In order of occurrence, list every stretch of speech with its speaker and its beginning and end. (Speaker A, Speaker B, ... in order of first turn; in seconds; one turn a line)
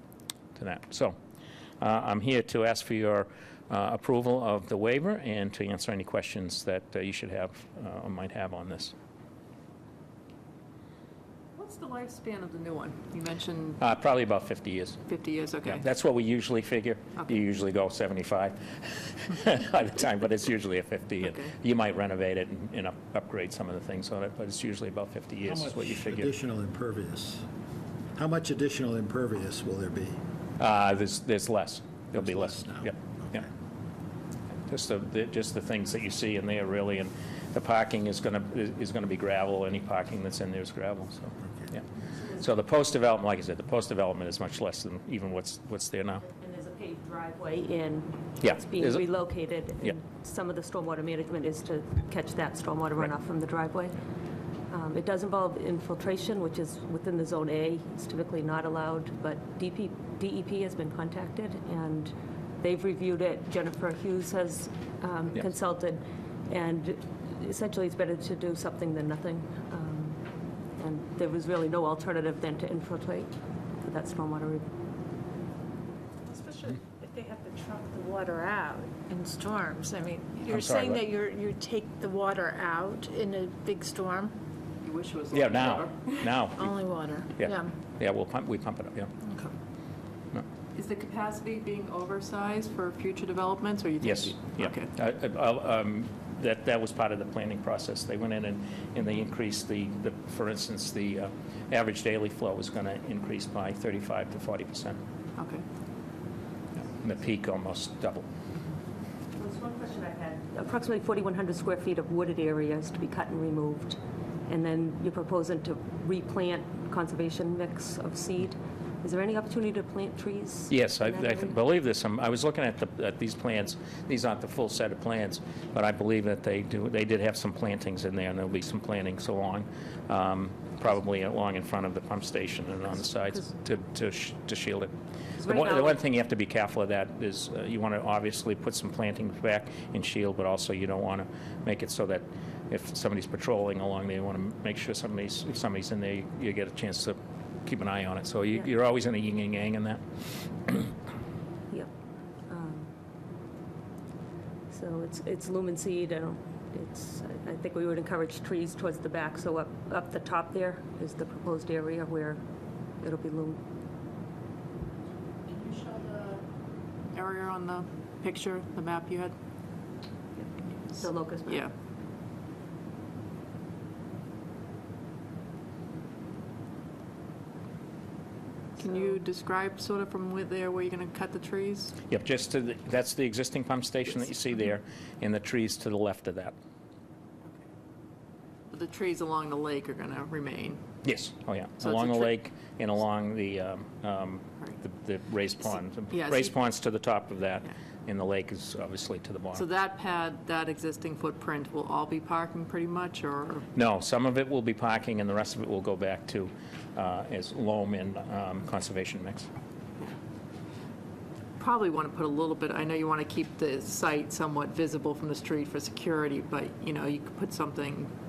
Speaker A: 0.5-1.2
Speaker A: 1.8-8.9
Speaker B: 11.6-13.8
Speaker A: 13.8-15.0
Speaker B: 15.1-15.8
Speaker A: 15.7-26.3
Speaker B: 21.2-21.5
Speaker C: 25.4-27.4
Speaker C: 28.1-30.2
Speaker A: 30.6-33.5
Speaker C: 32.1-33.5
Speaker A: 34.7-46.2
Speaker D: 46.2-54.0
Speaker A: 48.4-49.0
Speaker D: 54.7-70.2
Speaker D: 70.8-74.6
Speaker E: 76.2-84.3
Speaker A: 80.5-81.0
Speaker B: 84.8-86.2
Speaker A: 85.3-86.8
Speaker E: 86.5-87.7
Speaker A: 87.3-89.1
Speaker E: 89.2-89.5
Speaker B: 90.7-94.9
Speaker A: 94.0-105.0
Speaker B: 105.3-105.6
Speaker A: 106.8-108.2
Speaker D: 109.3-121.6
Speaker A: 120.7-150.0
Speaker D: 135.4-136.0
Speaker D: 152.5-152.9
Speaker D: 154.7-162.4
Speaker D: 163.0-163.6
Speaker B: 165.5-166.4
Speaker B: 167.1-169.3
Speaker D: 170.4-171.7
Speaker B: 171.4-171.7
Speaker B: 178.8-181.9
Speaker D: 178.8-179.1
Speaker A: 182.1-186.5
Speaker B: 188.7-190.8
Speaker A: 191.0-199.6
Speaker B: 191.8-192.3
Speaker B: 196.1-196.5
Speaker B: 199.5-203.7
Speaker A: 203.7-209.5
Speaker B: 211.6-218.1